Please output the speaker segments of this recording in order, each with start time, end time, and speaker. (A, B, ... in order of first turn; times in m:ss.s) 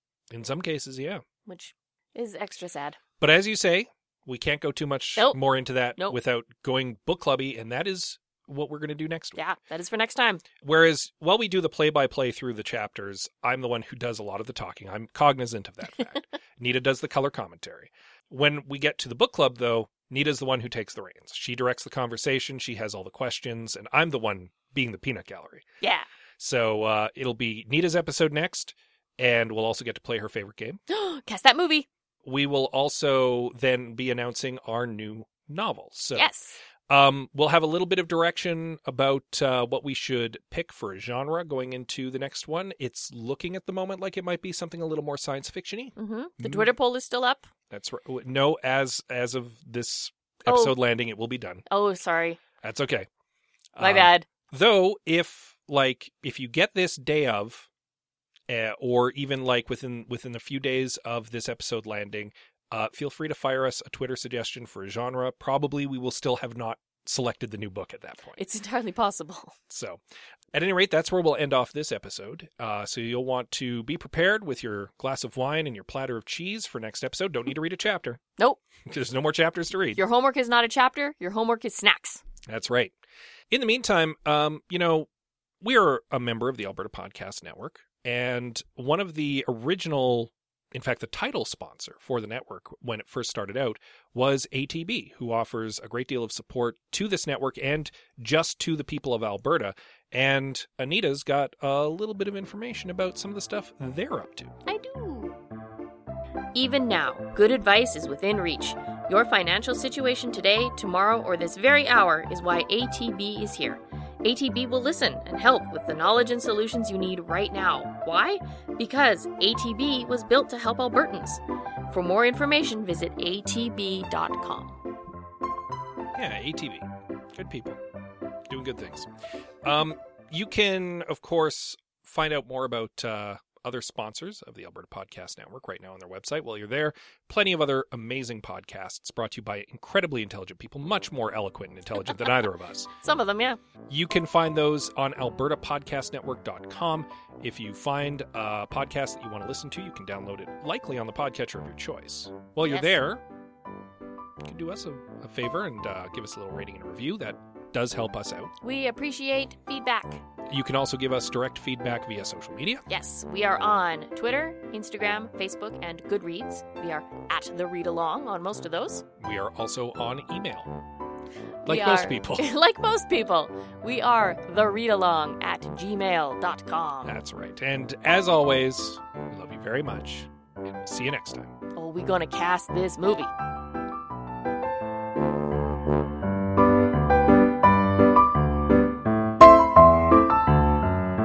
0:00.3-0:01.2 A
0:01.4-0:03.0 B
0:03.2-0:09.4 A
0:09.4-0:10.4 B
0:10.6-0:25.6 A
0:25.8-0:26.1 B
0:26.4-0:30.8 A
0:30.9-0:31.9 B
0:32.2-0:36.3 A
0:36.2-0:36.6 B
0:36.9-0:46.7 A
0:46.0-0:47.5 B
0:47.7-0:51.6 A
0:50.5-0:50.7 B
0:51.7-0:52.4 B
0:52.6-0:53.1 A
0:53.8-0:57.7 A
0:53.8-0:54.2 B
0:58.5-1:08.4 A
1:08.4-1:09.6 B
1:09.7-1:10.0 A
1:10.5-1:18.2 A
1:18.9-1:20.0 A
1:20.0-1:22.2 B
1:22.4-1:22.9 A
1:23.5-1:25.1 A
1:25.6-1:44.6 A
1:44.6-1:45.4 B
1:46.5-2:04.8 B
2:06.1-2:07.8 A
2:08.5-2:09.1 A
2:09.6-2:22.9 A
2:22.0-2:22.2 B
2:23.0-2:23.6 B
2:23.9-2:33.2 A
2:32.6-2:32.9 B
2:34.4-2:38.5 A
2:38.6-2:40.2 B
2:40.5-2:42.8 A
2:42.9-2:49.0 B
2:49.2-2:50.8 A
2:51.6-2:57.2 B
2:51.6-2:52.5 A
2:57.0-3:01.5 A
3:01.7-3:03.3 B